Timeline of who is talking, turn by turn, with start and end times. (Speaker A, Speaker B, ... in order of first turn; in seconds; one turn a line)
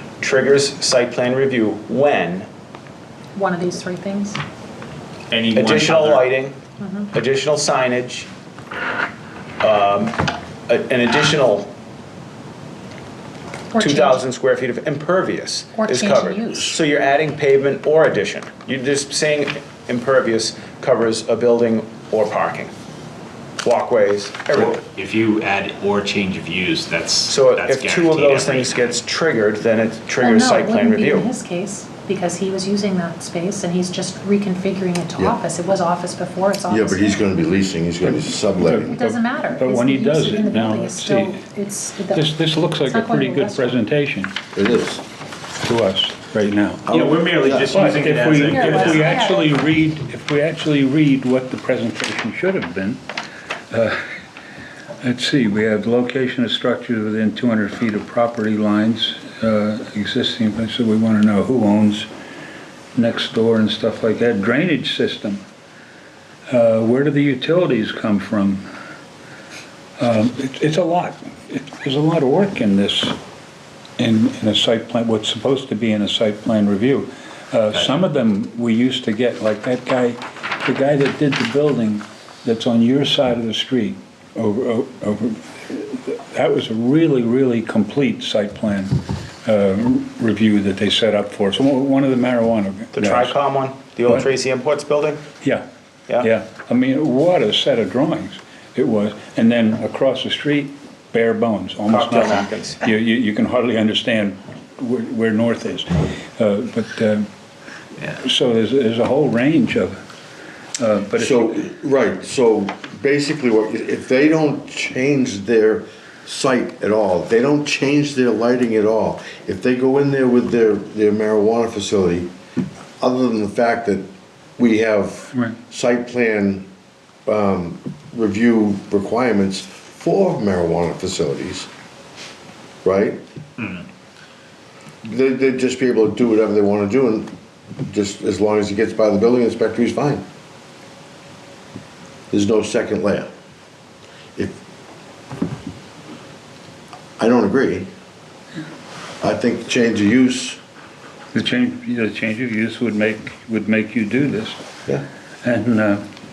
Speaker A: 0.2-2.5
Speaker B: 3.3-4.4
Speaker C: 5.3-6.3
Speaker A: 5.5-6.6
Speaker B: 6.8-7.1
Speaker A: 7.1-8.3
Speaker A: 9.6-11.7
Speaker B: 13.7-14.2
Speaker A: 13.8-22.7
Speaker B: 15.7-16.7
Speaker A: 23.6-24.8
Speaker C: 24.5-29.0
Speaker A: 27.3-31.3
Speaker B: 30.2-37.3
Speaker D: 36.7-39.0
Speaker E: 38.0-41.3
Speaker B: 38.9-43.8
Speaker E: 42.1-44.3
Speaker D: 44.5-45.0
Speaker E: 45.6-46.9
Speaker D: 46.9-47.7
Speaker C: 46.9-49.2
Speaker E: 47.7-53.0
Speaker B: 48.5-49.5
Speaker E: 53.7-54.0
Speaker E: 55.0-62.1
Speaker E: 62.9-65.4
Speaker E: 66.5-68.6
Speaker E: 70.0-73.2
Speaker E: 74.0-93.3
Speaker A: 92.9-95.2
Speaker E: 96.2-107.3
Speaker A: 101.9-102.8
Speaker E: 108.1-110.0
Speaker E: 110.8-111.6
Speaker D: 111.2-122.3
Speaker D: 123.0-126.7
Speaker D: 127.2-131.7
Speaker D: 132.8-133.2
Speaker D: 135.0-140.2
Speaker D: 142.3-143.3
Speaker D: 147.2-147.9
Speaker D: 149.2-150.6
Speaker E: 151.3-154.6
Speaker E: 155.4-156.0